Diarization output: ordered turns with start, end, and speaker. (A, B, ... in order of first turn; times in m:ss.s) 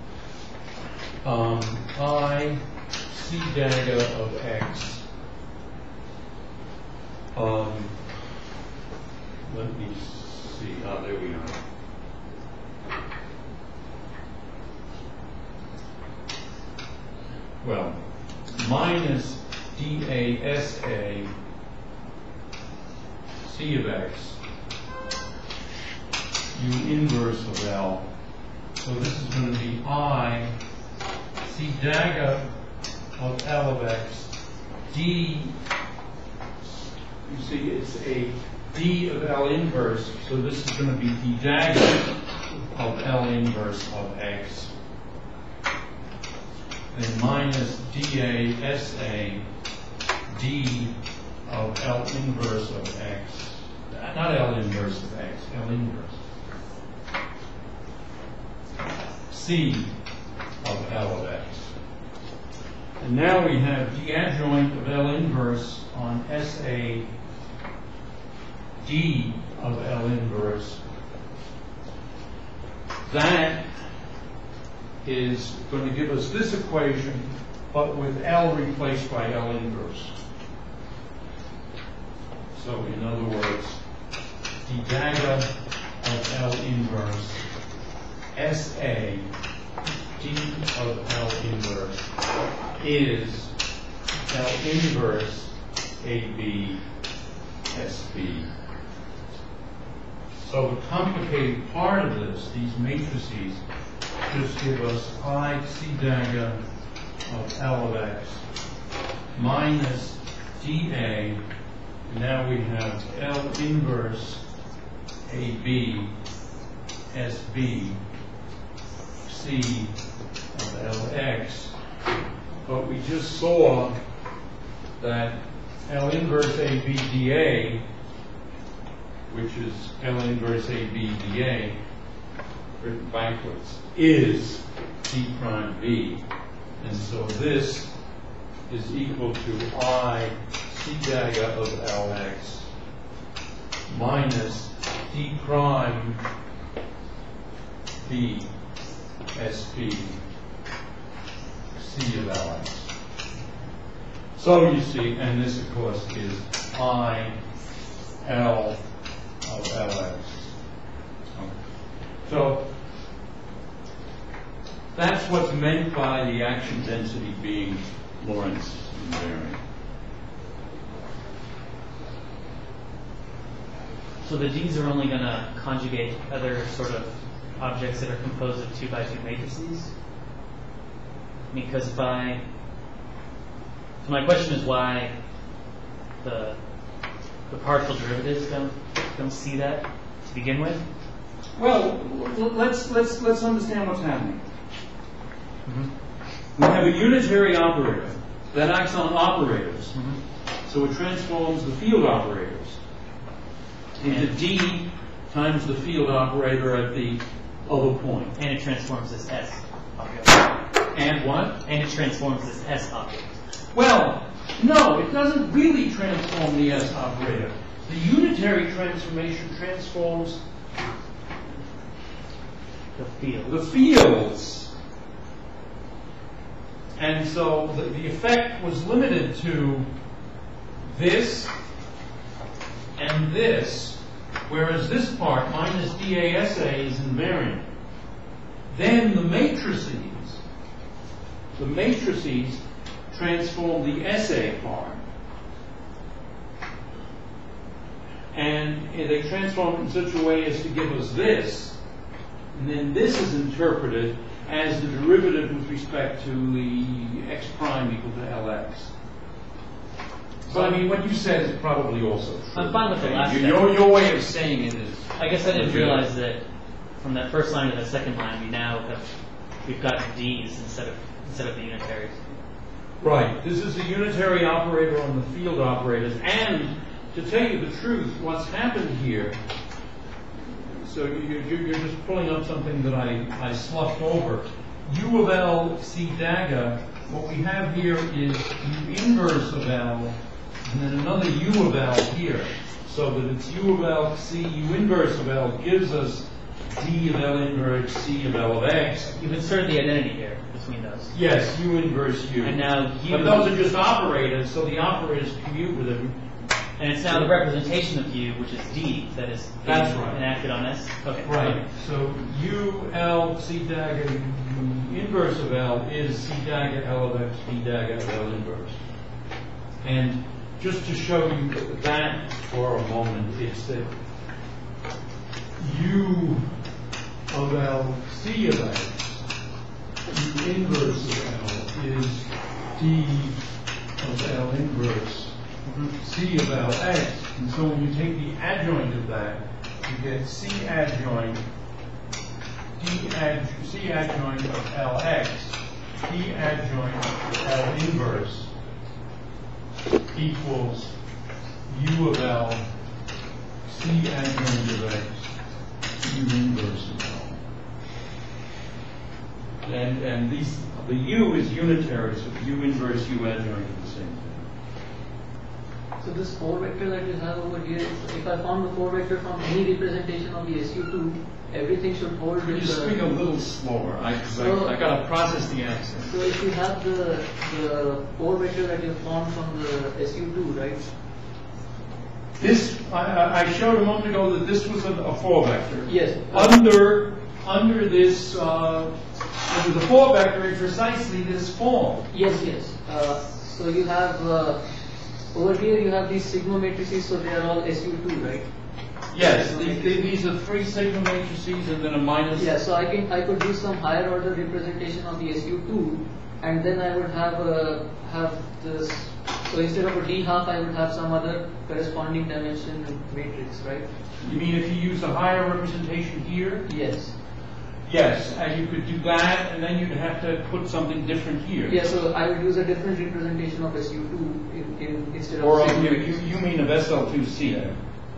0:01.2-0:05.1 A
0:07.3-0:08.0 A
0:09.5-0:11.6 A
0:17.6-0:21.3 A
0:23.4-0:24.4 A
0:26.5-0:28.1 A
0:28.8-0:30.5 A
0:31.4-0:32.5 A
0:33.2-0:34.3 A
0:34.9-0:35.6 A
0:37.2-0:44.7 A
0:46.9-0:49.5 A
0:50.3-0:51.0 A
0:51.5-0:56.2 A
0:59.3-1:00.0 A
1:00.6-1:01.8 A
1:03.0-1:07.1 A
1:08.8-1:10.8 A
1:13.1-1:13.9 A
1:15.0-1:20.2 A
1:22.5-1:23.8 A
1:24.6-1:27.4 A
1:28.3-1:29.3 A
1:30.2-1:32.1 A
1:32.8-1:33.6 A
1:34.3-1:36.8 A
1:37.7-1:38.5 A
1:40.4-1:43.6 A
1:44.3-1:46.6 A
1:47.2-1:48.4 A
1:49.3-1:51.4 A
1:52.1-1:54.4 A
1:55.2-1:56.1 A
1:57.1-1:58.0 A
1:59.2-2:00.0 A
2:00.5-2:01.8 A
2:02.6-2:04.0 A
2:05.0-2:07.8 A
2:09.3-2:11.8 A
2:12.8-2:16.2 A
2:16.8-2:17.9 A
2:18.7-2:22.7 A
2:23.9-2:26.2 A
2:28.0-2:28.5 A
2:29.3-2:30.2 A
2:31.7-2:32.9 A
2:34.4-2:37.4 A
2:38.2-2:38.8 A
2:39.4-2:40.6 A
2:41.4-2:42.7 A
2:44.9-2:49.6 A
2:54.2-2:59.9 B
3:01.5-3:02.4 B
3:04.0-3:05.1 B
3:06.2-3:06.6 B
3:07.5-3:10.8 B
3:11.6-3:14.4 A
3:15.6-3:15.9 B
3:16.6-3:20.0 A
3:19.9-3:20.2 B
3:20.6-3:22.8 A
3:24.0-3:28.4 A
3:24.0-3:24.3 B
3:28.4-3:30.5 B
3:30.9-3:31.6 A
3:31.6-3:33.4 B
3:33.7-3:40.4 A
3:43.0-3:43.6 B
3:43.4-3:44.7 A
3:47.0-3:49.9 A
3:50.8-3:51.5 A
3:53.0-3:57.7 A
3:58.7-4:00.4 A
4:01.6-4:05.1 A
4:08.3-4:11.8 A
4:12.5-4:18.9 A
4:20.5-4:26.1 A
4:20.5-4:20.8 B
4:22.6-4:23.7 B
4:25.2-4:26.4 B
4:27.0-4:32.2 B
4:33.0-4:39.4 A
4:40.5-4:59.1 A
4:59.1-5:01.2 B
5:01.1-5:06.2 A
5:02.4-5:03.7 B
5:06.8-5:11.6 B
5:07.1-5:07.4 A
5:09.6-5:10.2 A
5:11.2-5:18.8 A
5:19.8-5:23.9 A
5:25.6-5:26.6 A
5:27.3-5:29.2 A
5:30.1-5:33.4 A
5:34.0-5:35.4 A
5:35.6-5:35.9 B
5:36.0-5:41.4 A
5:42.8-5:48.5 A
5:50.1-5:51.0 A
5:51.7-5:52.6 A
5:53.6-5:55.3 A
5:56.0-5:57.4 A
5:59.6-6:04.5 A
6:06.0-6:13.0 C
6:12.4-6:16.1 A
6:14.3-6:14.8 C
6:16.1-6:20.9 C
6:22.4-6:32.1 A
6:25.9-6:26.6 C
6:32.1-6:34.7 C
6:35.3-6:38.5 C
6:39.1-6:42.6 A
6:39.1-6:40.0 C
6:42.3-6:53.9 C
6:54.2-6:56.7 A
6:56.7-6:57.2 C
6:57.9-7:02.0 A
7:01.7-7:06.4 C
7:05.4-7:07.7 A